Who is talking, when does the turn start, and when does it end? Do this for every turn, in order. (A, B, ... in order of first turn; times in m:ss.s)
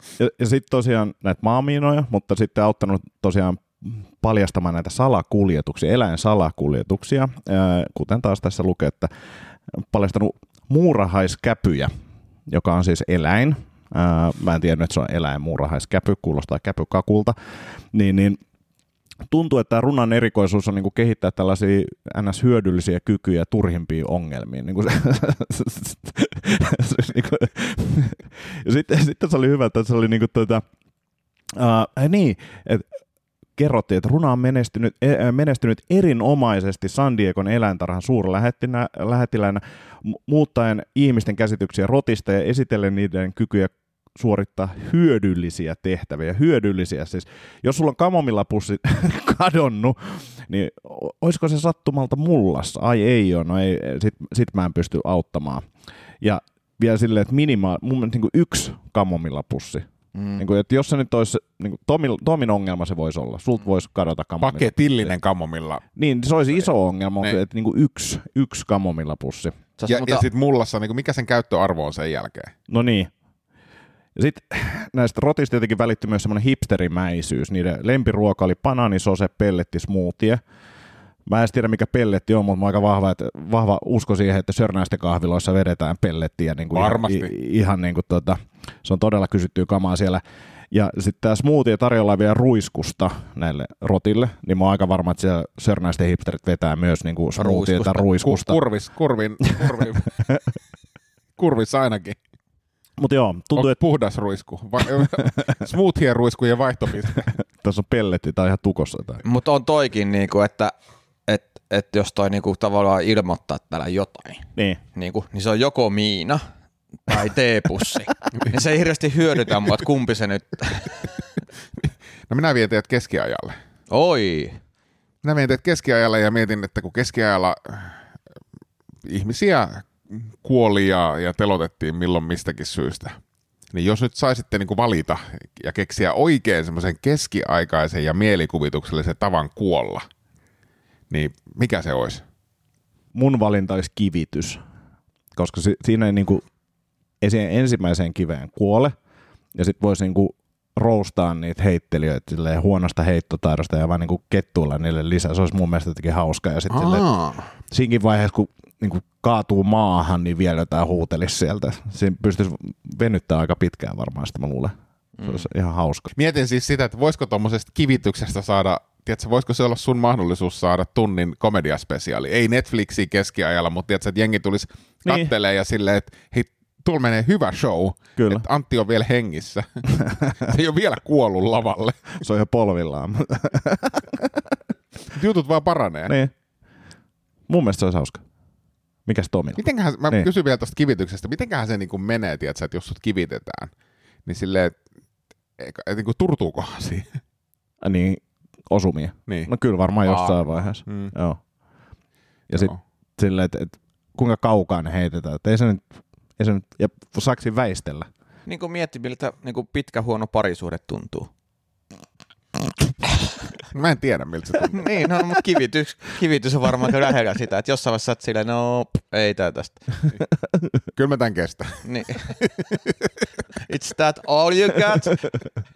0:00.2-0:09.1 A
0:09.7-0:11.9 A
0:12.5-0:18.4 A
0:19.3-0:30.6 A
0:31.5-0:32.9 A
0:33.6-0:55.7 A
0:56.2-1:05.1 A
1:00.1-1:00.4 B
1:04.4-1:05.8 C
1:06.0-1:09.5 A
1:09.8-1:10.2 B
1:09.9-1:12.5 C
1:12.7-1:13.1 A
1:14.2-1:20.4 A
1:21.2-1:38.6 A
1:26.7-1:27.3 C
1:37.4-1:38.1 B
1:38.2-1:40.4 C
1:41.4-1:42.2 C
1:43.0-1:43.8 A
1:43.5-1:47.3 C
1:45.0-1:45.5 A
1:47.2-1:49.2 A
1:49.2-1:50.7 B
1:51.3-1:56.4 B
1:54.5-1:54.8 A
1:57.0-2:01.0 B
2:02.3-2:03.6 C
2:03.9-2:04.6 B
2:05.2-2:08.0 C
2:09.0-2:13.2 C
2:13.7-2:20.1 C
2:21.1-2:22.2 C
2:23.1-2:24.6 A
2:25.3-2:26.4 A
2:27.2-2:28.9 A
2:29.5-2:37.1 A
2:36.7-2:37.4 C
2:37.6-2:46.1 A
2:45.2-2:45.5 B
2:46.1-3:02.2 C
2:55.0-2:55.3 A
2:58.2-2:58.5 A
3:00.0-3:00.4 A
3:02.2-3:04.6 A
3:05.1-3:06.2 C
3:06.1-3:06.3 A
3:07.5-3:08.2 A
3:09.0-3:10.3 A
3:09.6-3:13.7 C
3:14.2-3:14.8 C
3:15.6-3:17.1 C
3:17.8-3:21.4 A
3:20.0-3:20.4 B
3:20.8-3:21.1 C
3:22.5-3:22.8 C
3:22.5-3:28.1 A
3:28.4-3:31.3 B
3:33.7-3:34.9 C
3:34.7-3:39.8 B
3:40.9-3:43.1 C
3:41.8-3:42.4 B
3:43.7-3:45.2 B